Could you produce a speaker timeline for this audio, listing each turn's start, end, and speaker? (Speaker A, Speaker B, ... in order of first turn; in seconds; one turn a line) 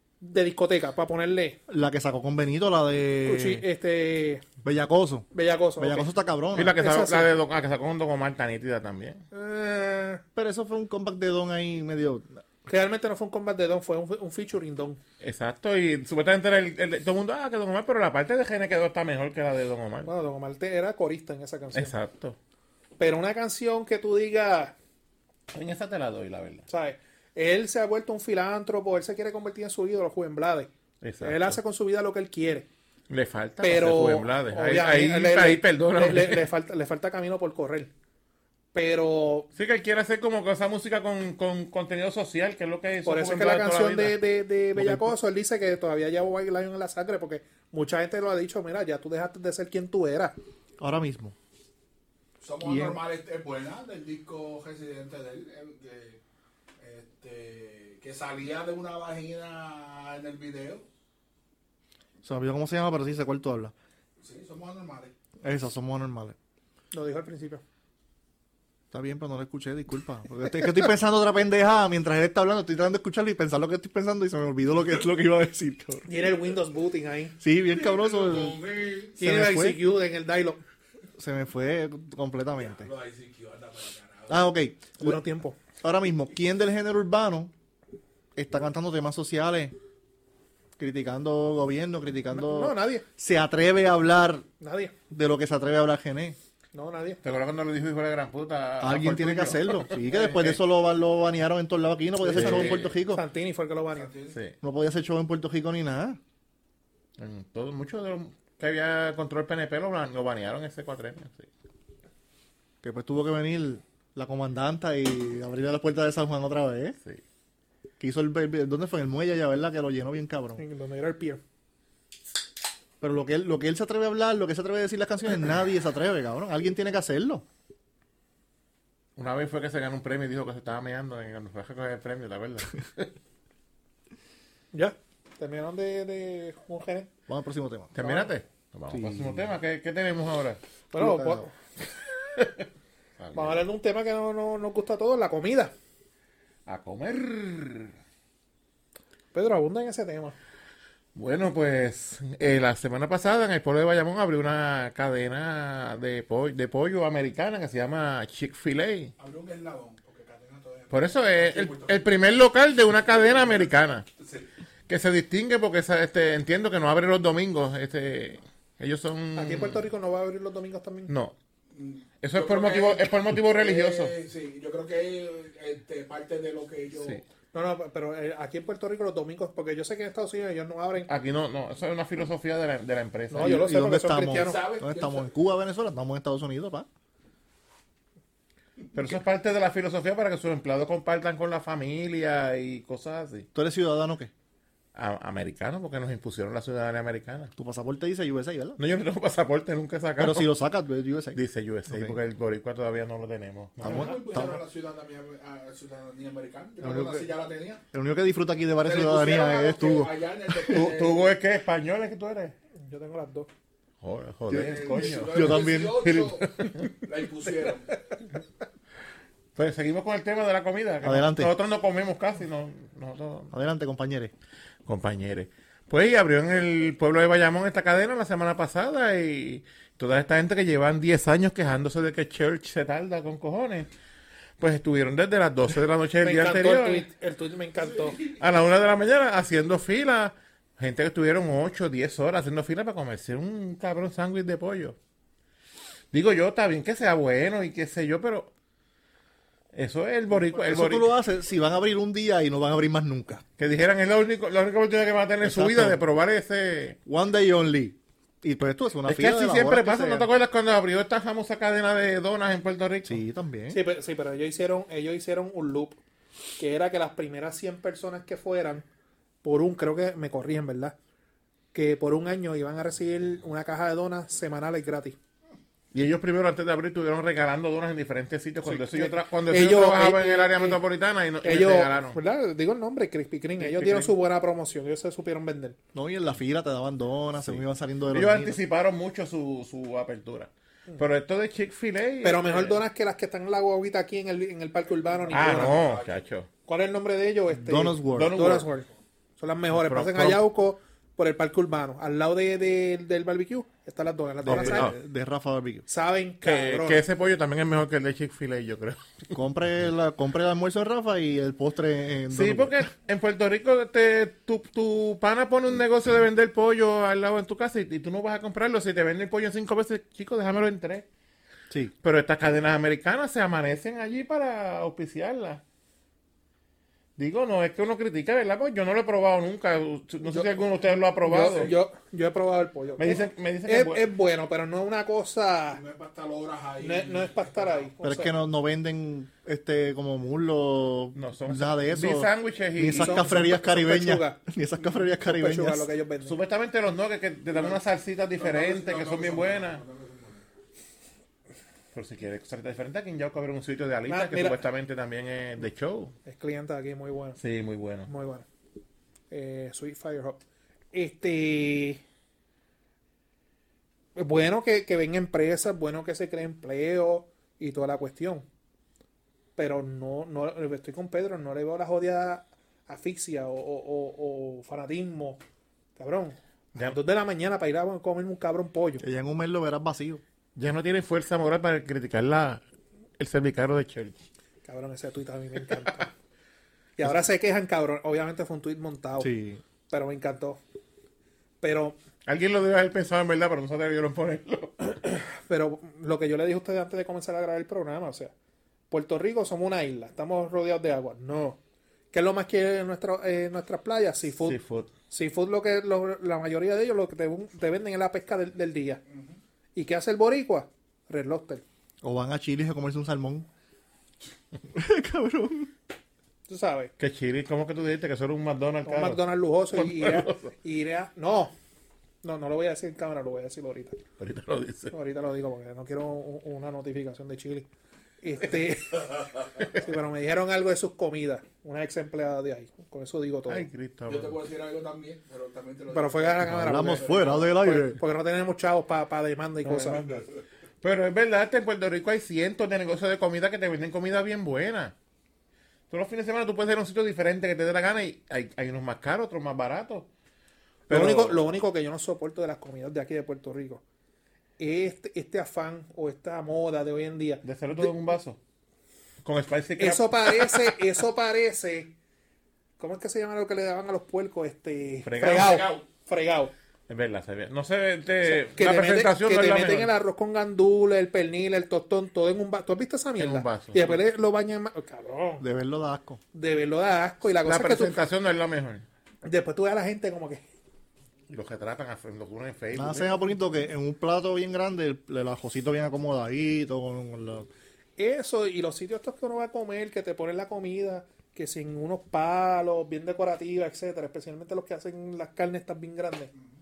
Speaker A: 0.2-1.6
Speaker B: 1.7-3.6
Speaker A: 3.2-4.5
Speaker B: 4.6-6.8
Speaker A: 5.3-6.1
Speaker C: 6.5-9.2
Speaker A: 6.8-7.3
Speaker A: 9.3-10.2
Speaker B: 10.3-12.4
Speaker A: 12.7-15.0
Speaker C: 15.2-20.1
Speaker A: 20.0-21.9
Speaker C: 21.7-22.4
Speaker A: 23.0-24.8
Speaker C: 25.5-26.7
Speaker A: 26.7-30.7
Speaker C: 31.0-31.6
Speaker A: 31.2-32.7
Speaker C: 33.1-36.5
Speaker A: 33.6-37.9
Speaker A: 38.7-39.5
Speaker C: 39.5-44.2
Speaker A: 43.0-50.4
Speaker B: 44.8-45.1
Speaker B: 50.8-51.4
Speaker D: 52.4-56.2
Speaker B: 52.6-53.0
Speaker D: 56.8-60.9
Speaker B: 62.2-63.7
Speaker D: 64.2-65.1
Speaker B: 65.4-66.4
Speaker A: 66.9-67.6
Speaker B: 68.9-76.1
Speaker A: 76.1-77.4
Speaker B: 77.4-78.6
Speaker D: 77.7-79.2
Speaker B: 79.1-79.8
Speaker A: 79.2-80.6
Speaker B: 81.2-82.9
Speaker D: 82.5-84.5
Speaker B: 84.3-85.2
Speaker A: 85.0-85.6
Speaker B: 85.8-87.5
Speaker B: 88.4-89.8
Speaker B: 90.8-94.5
Speaker A: 92.3-93.0
Speaker A: 94.6-94.9
Speaker B: 95.1-96.4
Speaker A: 96.7-97.2
Speaker C: 97.2-100.6
Speaker B: 98.8-103.2
Speaker A: 102.2-104.1
Speaker C: 102.3-103.0
Speaker D: 103.9-104.4
Speaker B: 104.6-106.2
Speaker C: 107.2-111.5
Speaker B: 112.8-117.0
Speaker B: 118.0-120.6
Speaker A: 120.6-121.4
Speaker B: 123.0-127.5
Speaker C: 129.2-133.1
Speaker A: 134.7-137.1
Speaker B: 137.3-138.2
Speaker C: 137.9-140.6
Speaker B: 138.9-139.5
Speaker A: 140.9-141.5
Speaker B: 140.9-141.5
Speaker C: 142.3-142.7
Speaker C: 143.2-143.6
Speaker A: 143.3-145.7
Speaker C: 146.7-147.9
Speaker A: 149.3-150.4
Speaker C: 151.2-159.1
Speaker D: 159.2-162.1
Speaker C: 160.9-164.1
Speaker D: 164.2-164.5
Speaker C: 164.9-169.8
Speaker A: 169.3-171.1
Speaker C: 171.1-171.3
Speaker D: 171.7-177.2
Speaker C: 172.2-174.2
Speaker A: 177.5-181.1
Speaker C: 181.1-183.6
Speaker A: 183.3-184.6
Speaker B: 183.3-186.9
Speaker D: 184.3-185.3
Speaker C: 188.9-193.5
Speaker B: 193.6-194.3
Speaker C: 194.9-197.5
Speaker B: 197.6-198.8
Speaker C: 198.8-200.5
Speaker B: 200.2-202.2
Speaker C: 201.3-204.4
Speaker B: 203.8-204.6
Speaker D: 203.8-207.8
Speaker B: 206.8-207.3
Speaker B: 207.9-210.1
Speaker D: 208.8-211.3
Speaker C: 210.6-212.6
Speaker A: 212.8-213.5
Speaker C: 214.0-216.9
Speaker B: 214.5-216.2
Speaker D: 214.5-218.0
Speaker C: 219.6-223.5
Speaker B: 221.0-221.5
Speaker B: 223.5-224.3
Speaker C: 224.9-233.9
Speaker C: 234.6-237.1
Speaker A: 236.2-238.2
Speaker C: 238.3-245.0
Speaker C: 246.1-248.5
Speaker C: 249.7-251.1
Speaker B: 250.5-253.4
Speaker C: 253.6-257.0
Speaker B: 255.4-256.0
Speaker B: 257.1-260.3
Speaker C: 259.1-263.2
Speaker B: 263.1-263.8
Speaker A: 263.7-266.0
Speaker A: 266.6-268.9
Speaker A: 269.4-271.0
Speaker A: 271.7-275.2
Speaker C: 275.9-282.2
Speaker A: 278.6-280.8
Speaker A: 281.4-285.8
Speaker C: 283.6-284.1
Speaker B: 285.9-288.6
Speaker C: 287.4-292.8
Speaker A: 292.2-295.8
Speaker D: 295.1-296.2
Speaker C: 295.3-296.5
Speaker A: 296.7-298.9
Speaker B: 297.5-298.4
Speaker C: 298.1-298.7
Speaker A: 299.4-304.9
Speaker C: 299.7-300.4
Speaker B: 304.4-305.9
Speaker C: 304.4-304.9
Speaker A: 305.9-307.0
Speaker C: 306.4-309.3
Speaker B: 309.3-312.8
Speaker C: 312.3-321.1
Speaker C: 322.0-325.6
Speaker C: 327.2-331.7
Speaker A: 330.2-330.6
Speaker A: 331.2-335.8
Speaker D: 331.4-331.8
Speaker C: 333.0-334.1
Speaker D: 335.7-337.9
Speaker A: 336.8-338.3
Speaker B: 338.0-345.9
Speaker C: 341.1-343.4
Speaker A: 342.9-346.4
Speaker C: 346.2-349.8
Speaker D: 347.5-347.8
Speaker D: 348.4-350.4
Speaker C: 351.9-356.1
Speaker A: 354.1-354.6
Speaker A: 356.3-357.4
Speaker C: 357.4-358.1
Speaker A: 358.1-358.5
Speaker A: 359.3-360.4
Speaker A: 360.9-362.0
Speaker A: 364.1-368.4
Speaker A: 369.6-375.4
Speaker A: 376.0-379.0
Speaker B: 379.0-380.2
Speaker C: 380.6-382.6
Speaker C: 383.2-384.2
Speaker A: 384.6-386.1
Speaker A: 387.0-389.3
Speaker B: 389.2-389.6
Speaker A: 389.9-390.6
Speaker A: 391.6-391.9
Speaker C: 392.3-394.9
Speaker A: 395.3-398.3
Speaker A: 398.9-401.6
Speaker A: 402.1-404.6
Speaker C: 404.4-404.9
Speaker A: 405.1-409.0
Speaker A: 409.8-411.6
Speaker B: 412.0-413.5
Speaker B: 414.7-415.7
Speaker A: 416.5-416.9
Speaker C: 417.0-420.5
Speaker A: 418.9-421.5
Speaker A: 422.2-424.0
Speaker C: 424.2-424.9
Speaker A: 424.9-427.7
Speaker A: 428.2-433.7
Speaker C: 433.5-434.4
Speaker D: 434.1-437.5
Speaker A: 435.9-440.0
Speaker B: 436.4-438.0
Speaker C: 439.6-440.3
Speaker C: 440.8-444.9
Speaker C: 445.9-450.1
Speaker C: 450.9-451.5
Speaker A: 450.9-453.8
Speaker A: 454.6-457.9
Speaker C: 457.4-458.4
Speaker C: 459.2-460.7
Speaker A: 459.8-461.9
Speaker A: 462.8-466.5
Speaker C: 465.1-465.7
Speaker D: 465.2-465.8
Speaker C: 466.9-469.9
Speaker A: 468.3-475.4
Speaker C: 473.2-474.0
Speaker B: 475.4-476.2
Speaker A: 476.3-478.0
Speaker C: 477.4-478.9
Speaker A: 479.2-480.4
Speaker C: 481.3-483.2
Speaker B: 482.7-487.5
Speaker A: 488.0-496.3